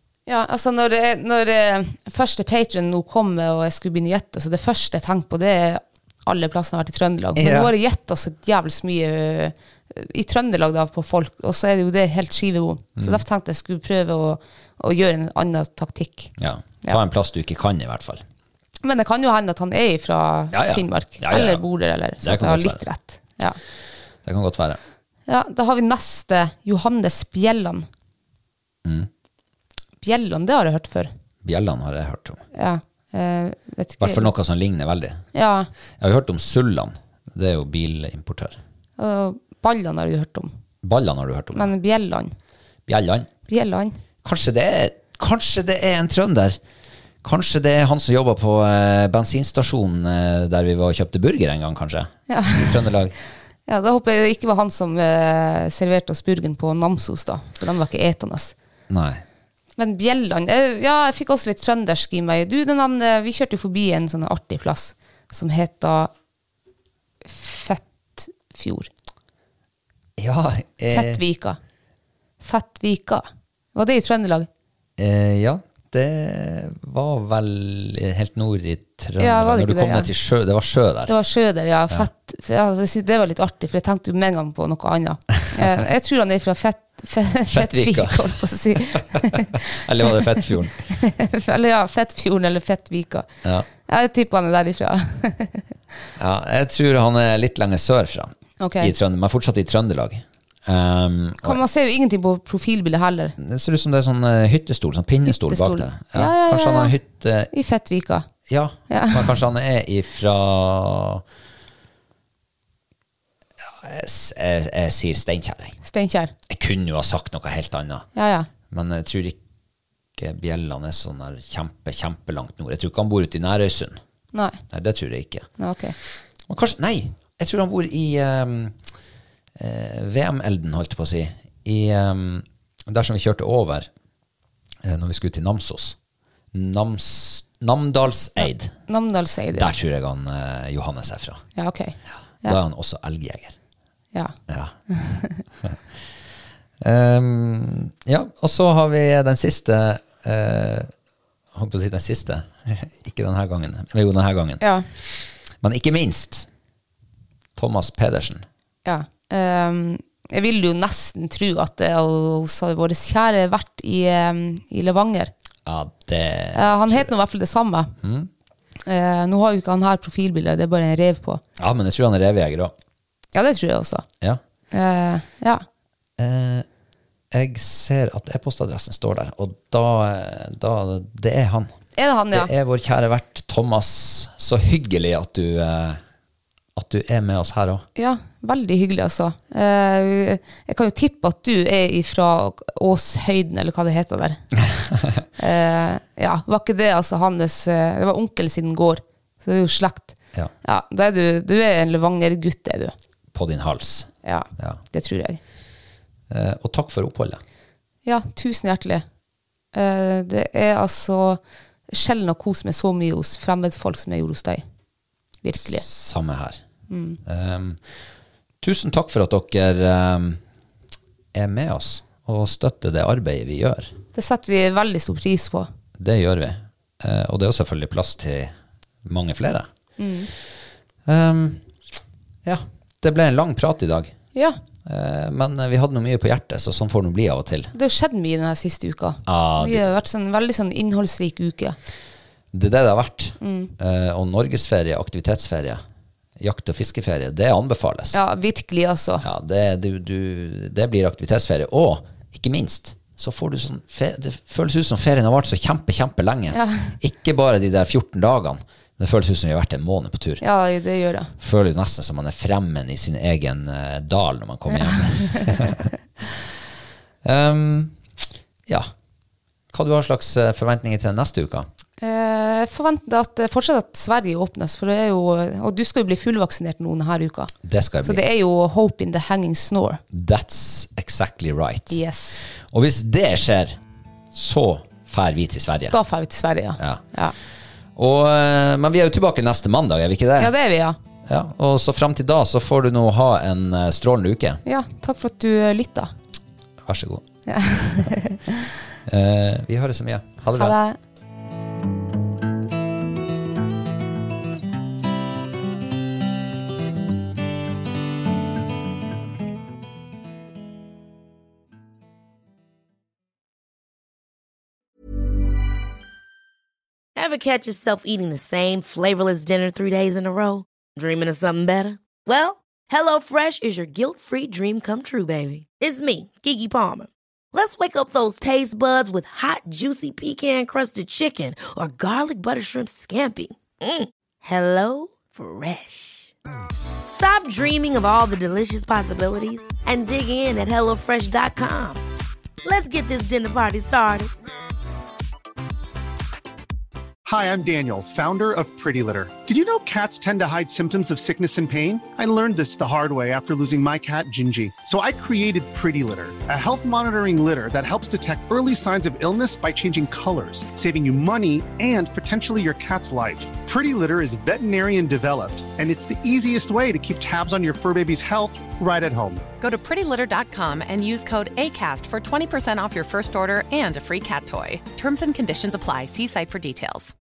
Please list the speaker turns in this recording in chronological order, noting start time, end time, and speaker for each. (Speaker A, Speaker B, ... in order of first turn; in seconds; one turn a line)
Speaker A: 0.3-16.3
Speaker B: 7.3-7.7
Speaker B: 13.0-13.2
Speaker B: 16.4-18.2
Speaker A: 18.8-23.6
Speaker B: 20.5-21.6
Speaker B: 22.2-22.8
Speaker B: 24.2-24.8
Speaker A: 25.3-27.9
Speaker B: 28.8-29.1
Speaker A: 30.0-31.1
Speaker B: 31.4-32.4
Speaker A: 32.5-34.3
Speaker B: 34.0-35.2
Speaker A: 35.3-35.7
Speaker B: 36.0-38.6
Speaker A: 39.0-40.5
Speaker B: 40.8-41.7
Speaker A: 41.5-42.3
Speaker B: 42.9-43.3
Speaker A: 43.5-44.0
Speaker B: 44.2-46.6
Speaker B: 47.2-53.1
Speaker A: 52.3-52.8
Speaker A: 53.7-58.5
Speaker B: 58.9-59.2
Speaker A: 59.8-66.1
Speaker A: 67.2-68.9
Speaker B: 70.2-71.2
Speaker A: 70.9-71.6
Speaker A: 72.4-74.5
Speaker B: 75.0-81.1
Speaker A: 79.2-80.1
Speaker A: 81.1-93.3
Speaker B: 87.5-90.8
Speaker A: 93.8-95.7
Speaker B: 96.2-101.6
Speaker A: 98.6-98.9
Speaker A: 101.4-103.3
Speaker B: 103.4-107.5
Speaker A: 105.3-106.9
Speaker A: 107.5-108.3
Speaker B: 108.5-111.2
Speaker A: 108.9-109.3
Speaker B: 113.8-115.8
Speaker A: 115.8-116.3
Speaker B: 116.5-118.1
Speaker A: 118.1-118.5
Speaker B: 118.7-119.4
Speaker B: 120.2-124.0
Speaker A: 124.3-124.6
Speaker B: 124.7-125.5
Speaker A: 125.6-126.0
Speaker B: 126.5-128.8
Speaker B: 129.6-133.9
Speaker B: 134.8-135.9
Speaker B: 136.5-138.7
Speaker A: 138.9-139.7
Speaker B: 139.5-141.4
Speaker A: 141.6-142.6
Speaker B: 142.4-143.6
Speaker B: 144.5-144.7
Speaker A: 144.9-145.4
Speaker B: 146.8-150.9
Speaker B: 151.5-156.5
Speaker A: 154.6-154.8
Speaker B: 157.6-158.4
Speaker A: 158.8-165.3
Speaker B: 165.7-167.1
Speaker A: 166.5-167.9
Speaker B: 168.0-168.3
Speaker A: 168.8-171.4
Speaker B: 171.6-172.7
Speaker A: 173.3-174.1
Speaker A: 174.7-175.6
Speaker B: 176.2-176.6
Speaker B: 177.3-181.7
Speaker A: 182.0-182.5
Speaker B: 182.3-186.0
Speaker B: 186.8-187.8
Speaker A: 187.9-194.4
Speaker B: 194.9-195.2
Speaker A: 195.4-202.9
Speaker B: 203.3-204.8
Speaker A: 204.2-205.4
Speaker B: 206.3-207.4
Speaker A: 208.1-209.0
Speaker A: 209.7-214.6
Speaker A: 215.4-215.8
Speaker B: 215.6-216.6
Speaker A: 216.9-217.2
Speaker B: 217.2-217.8
Speaker B: 218.6-220.4
Speaker B: 221.3-223.9
Speaker A: 224.1-225.7
Speaker B: 226.0-229.7
Speaker A: 230.0-230.3
Speaker B: 231.1-231.6
Speaker B: 232.4-234.1
Speaker B: 234.8-237.7
Speaker A: 237.7-241.8
Speaker B: 239.2-239.9
Speaker B: 242.5-245.8
Speaker A: 243.4-243.7
Speaker B: 246.4-248.2
Speaker A: 248.1-249.2
Speaker B: 249.2-260.4
Speaker A: 256.5-256.9
Speaker A: 260.4-261.3
Speaker B: 261.4-266.5
Speaker A: 264.7-265.8
Speaker B: 267.2-268.0
Speaker B: 269.7-271.7
Speaker A: 272.0-277.5
Speaker B: 277.6-278.2
Speaker A: 278.0-280.0
Speaker B: 280.1-283.8
Speaker A: 281.9-282.5
Speaker B: 284.3-286.0
Speaker A: 285.9-287.3
Speaker B: 287.9-290.5
Speaker A: 290.4-291.0
Speaker B: 291.2-294.6
Speaker A: 294.6-296.1
Speaker B: 296.8-297.2
Speaker A: 297.5-298.7
Speaker B: 299.1-300.8
Speaker A: 300.5-301.0
Speaker C: 317.1-336.3
Speaker C: 337.1-342.0
Speaker C: 342.6-344.3
Speaker D: 347.2-369.5
Speaker E: 369.6-377.1